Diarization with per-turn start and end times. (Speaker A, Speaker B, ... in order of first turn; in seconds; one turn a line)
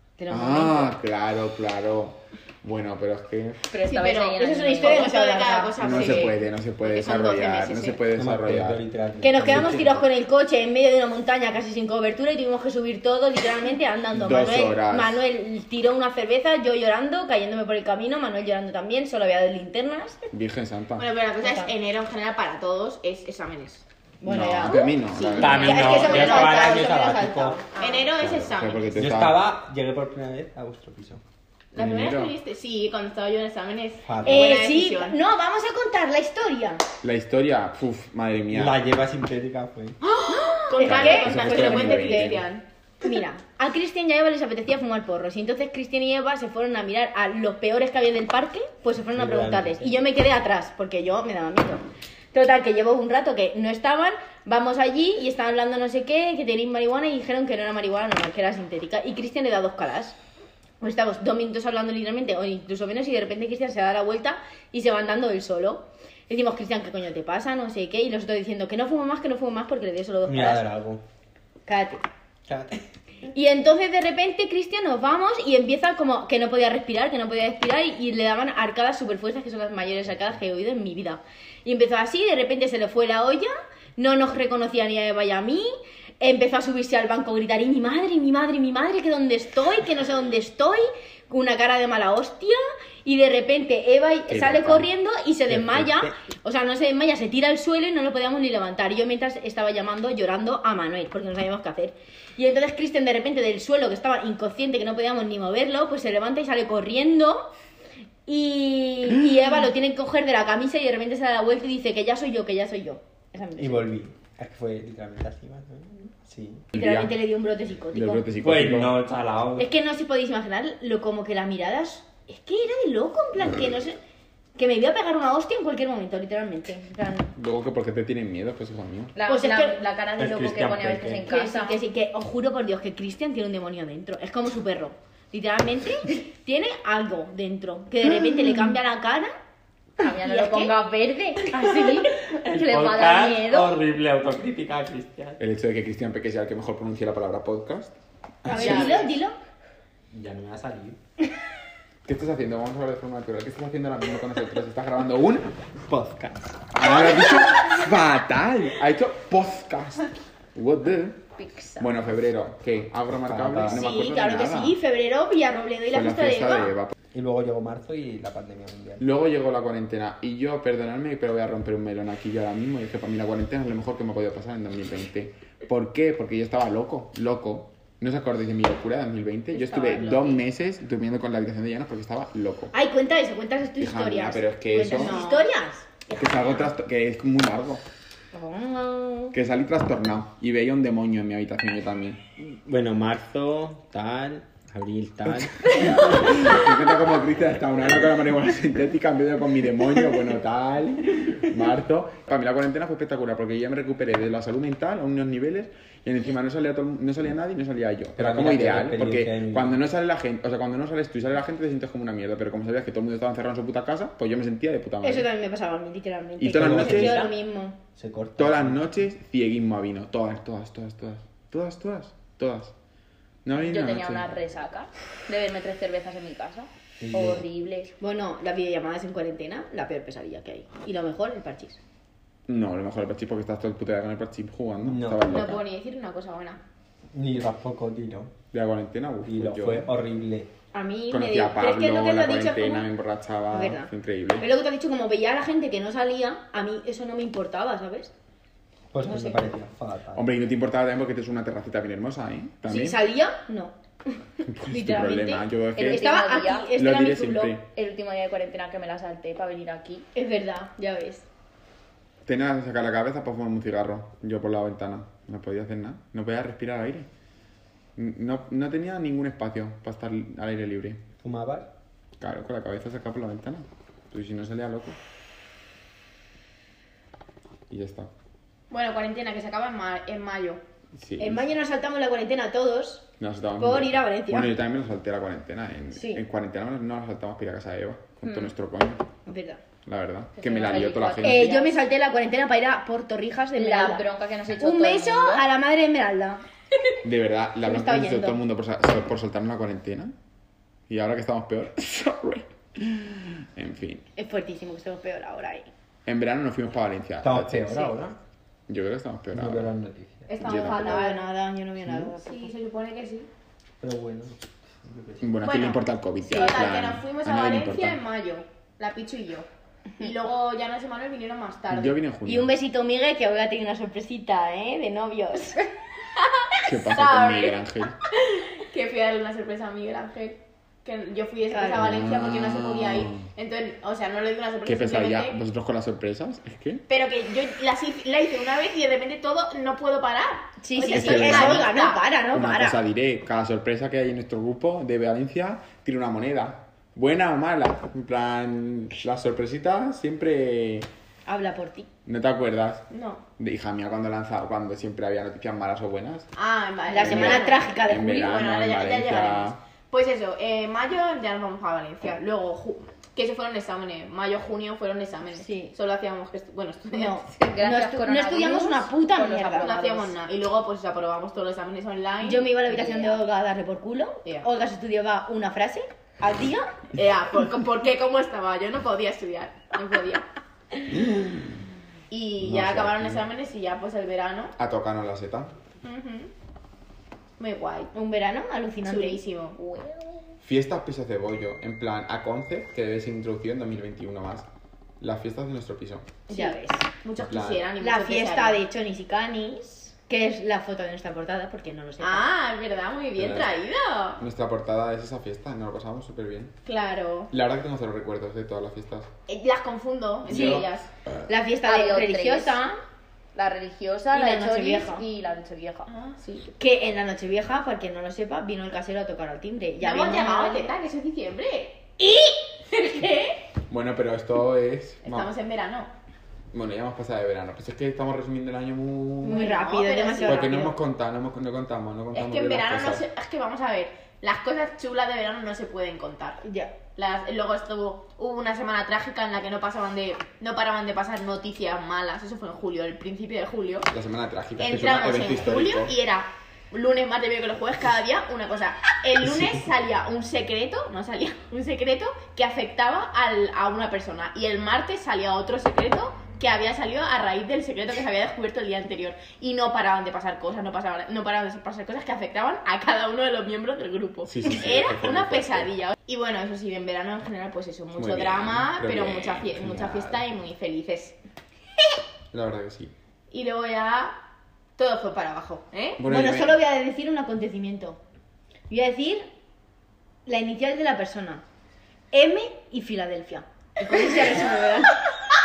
Speaker A: 0.2-0.9
Speaker B: 0.3-3.6
Speaker C: 3.7-5.1
Speaker D: 3.8-8.0
Speaker A: 4.4-6.3
Speaker B: 5.8-8.8
Speaker E: 8.1-10.0
Speaker A: 9.2-20.2
Speaker B: 9.4-10.0
Speaker B: 14.1-15.2
Speaker B: 20.3-21.1
Speaker D: 21.0-23.8
Speaker A: 21.4-21.7
Speaker A: 24.2-28.1
Speaker B: 24.2-25.8
Speaker D: 25.2-26.9
Speaker E: 25.4-27.6
Speaker D: 27.8-29.1
Speaker B: 28.2-29.4
Speaker E: 28.9-31.2
Speaker D: 31.7-35.2
Speaker B: 31.8-32.4
Speaker E: 34.0-34.6
Speaker A: 34.2-36.8
Speaker B: 37.0-38.8
Speaker E: 38.5-40.0
Speaker D: 40.0-42.6
Speaker A: 40.3-42.4
Speaker B: 40.8-42.4
Speaker A: 43.0-60.2
Speaker E: 49.1-50.0
Speaker A: 60.8-70.6
Speaker E: 70.3-71.0
Speaker A: 71.7-72.0
Speaker E: 72.5-72.8
Speaker A: 73.3-107.5
Speaker B: 94.3-94.9
Speaker E: 95.5-96.1
Speaker A: 108.3-113.9
Speaker E: 113.6-116.6
Speaker B: 116.8-117.1
Speaker A: 116.8-118.3
Speaker B: 117.9-118.9
Speaker E: 118.4-119.7
Speaker A: 119.6-124.0
Speaker A: 124.6-127.3
Speaker B: 127.4-129.1
Speaker C: 129.2-131.8
Speaker A: 129.3-129.8
Speaker E: 130.2-131.2
Speaker A: 131.3-139.3
Speaker C: 140.0-143.8
Speaker A: 140.1-140.8
Speaker A: 141.6-141.8
Speaker E: 142.3-145.4
Speaker B: 145.4-148.9
Speaker A: 148.5-149.4
Speaker D: 148.5-149.2
Speaker E: 150.1-151.0
Speaker B: 152.1-155.5
Speaker E: 155.9-156.7
Speaker B: 156.8-161.2
Speaker A: 156.9-157.3
Speaker C: 161.4-161.9
Speaker B: 161.8-164.8
Speaker E: 163.2-163.9
Speaker A: 163.7-166.7
Speaker B: 165.9-166.9
Speaker E: 167.1-169.0
Speaker B: 169.0-182.7
Speaker A: 179.6-180.4
Speaker A: 182.7-185.9
Speaker B: 183.8-185.2
Speaker D: 184.8-185.5
Speaker B: 186.1-187.8
Speaker A: 188.3-189.3
Speaker B: 189.3-192.2
Speaker E: 192.4-195.9
Speaker B: 195.8-215.3
Speaker E: 208.2-209.8
Speaker A: 215.0-217.8
Speaker B: 216.4-217.2
Speaker E: 216.5-217.3
Speaker E: 217.9-218.9
Speaker B: 218.4-222.7
Speaker B: 223.4-224.4
Speaker C: 223.6-227.9
Speaker E: 227.0-227.5
Speaker A: 228.0-231.8
Speaker B: 232.5-235.6
Speaker E: 234.8-235.4
Speaker D: 235.3-236.6
Speaker E: 237.1-238.3
Speaker B: 238.5-239.9
Speaker E: 239.2-240.5
Speaker A: 240.7-242.9
Speaker B: 241.1-244.5
Speaker A: 243.5-248.1
Speaker E: 248.9-250.2
Speaker A: 249.0-249.4
Speaker B: 250.1-253.0
Speaker A: 252.7-253.7
Speaker B: 254.5-256.0
Speaker A: 254.6-257.6
Speaker C: 255.8-256.7
Speaker B: 256.7-257.7
Speaker C: 257.7-260.0
Speaker A: 260.1-261.2
Speaker B: 262.3-267.1
Speaker B: 268.0-271.0
Speaker E: 271.2-271.7
Speaker B: 272.2-275.0
Speaker B: 277.7-278.1
Speaker D: 278.7-280.6
Speaker B: 281.0-281.5
Speaker A: 281.2-283.1
Speaker B: 283.2-289.1
Speaker A: 283.6-284.5
Speaker A: 285.9-286.2
Speaker C: 288.2-288.5
Speaker A: 289.3-289.6
Speaker B: 289.9-291.5
Speaker C: 290.4-291.8
Speaker A: 291.2-294.1
Speaker C: 293.6-295.4
Speaker A: 294.6-296.4
Speaker B: 297.0-300.1
Speaker A: 297.6-298.4
Speaker B: 300.9-304.0
Speaker A: 304.2-305.7
Speaker B: 306.1-307.9
Speaker E: 307.2-308.2
Speaker B: 308.7-309.7
Speaker E: 309.3-310.5
Speaker D: 310.3-311.2
Speaker A: 310.4-312.6
Speaker B: 310.4-310.9
Speaker E: 311.8-312.1
Speaker D: 312.2-313.3
Speaker E: 313.8-315.2
Speaker B: 315.2-318.0
Speaker D: 315.4-319.5
Speaker D: 320.0-322.0
Speaker B: 321.7-322.5
Speaker A: 322.2-325.7
Speaker D: 326.2-327.6
Speaker B: 326.6-327.9
Speaker D: 328.2-335.4
Speaker A: 331.5-332.0
Speaker B: 331.8-333.3
Speaker B: 334.6-336.8
Speaker D: 336.9-342.0
Speaker A: 340.6-342.8
Speaker B: 340.9-341.7
Speaker B: 342.3-350.9
Speaker A: 351.3-351.9
Speaker B: 352.1-352.8
Speaker D: 352.9-353.2
Speaker B: 353.4-356.3
Speaker D: 356.4-357.6
Speaker A: 356.9-358.3
Speaker B: 357.0-359.6
Speaker D: 358.2-367.2
Speaker A: 365.4-365.7
Speaker A: 366.9-370.1
Speaker C: 367.3-369.6
Speaker D: 369.6-373.2
Speaker A: 372.2-376.7
Speaker D: 376.9-380.2
Speaker B: 381.1-381.4
Speaker D: 382.1-384.5
Speaker B: 382.4-383.2
Speaker B: 384.6-385.6
Speaker D: 385.8-386.3
Speaker D: 387.4-387.9
Speaker A: 387.9-389.2
Speaker D: 388.8-389.6
Speaker C: 389.6-390.1
Speaker B: 390.4-394.5
Speaker B: 395.0-396.1
Speaker D: 396.3-398.6
Speaker A: 396.3-396.9
Speaker B: 397.2-397.6
Speaker A: 397.8-402.3
Speaker D: 402.0-404.2
Speaker B: 403.2-403.5
Speaker B: 404.2-406.6
Speaker D: 406.7-407.3
Speaker B: 407.3-409.1
Speaker D: 409.3-410.9
Speaker B: 410.2-410.7
Speaker A: 410.3-410.7
Speaker A: 411.3-412.8
Speaker C: 411.7-412.6
Speaker C: 413.4-415.9
Speaker A: 414.1-415.0
Speaker D: 415.9-416.5
Speaker A: 416.6-420.7
Speaker D: 419.8-421.9
Speaker A: 422.0-422.8
Speaker D: 422.8-423.4
Speaker B: 423.7-425.3
Speaker D: 425.0-425.9
Speaker B: 426.5-429.5
Speaker A: 429.2-430.8
Speaker D: 429.3-430.6
Speaker B: 430.3-433.1
Speaker D: 432.1-436.4
Speaker A: 436.4-436.7
Speaker D: 437.0-443.9
Speaker B: 443.9-446.0
Speaker D: 444.6-471.2
Speaker B: 464.3-465.7
Speaker B: 468.0-470.2
Speaker B: 472.3-472.9
Speaker D: 473.3-474.2
Speaker D: 474.8-476.0
Speaker B: 476.0-476.6
Speaker A: 476.1-478.0
Speaker A: 478.7-479.3
Speaker A: 480.3-481.4
Speaker A: 482.1-484.9
Speaker D: 484.1-484.4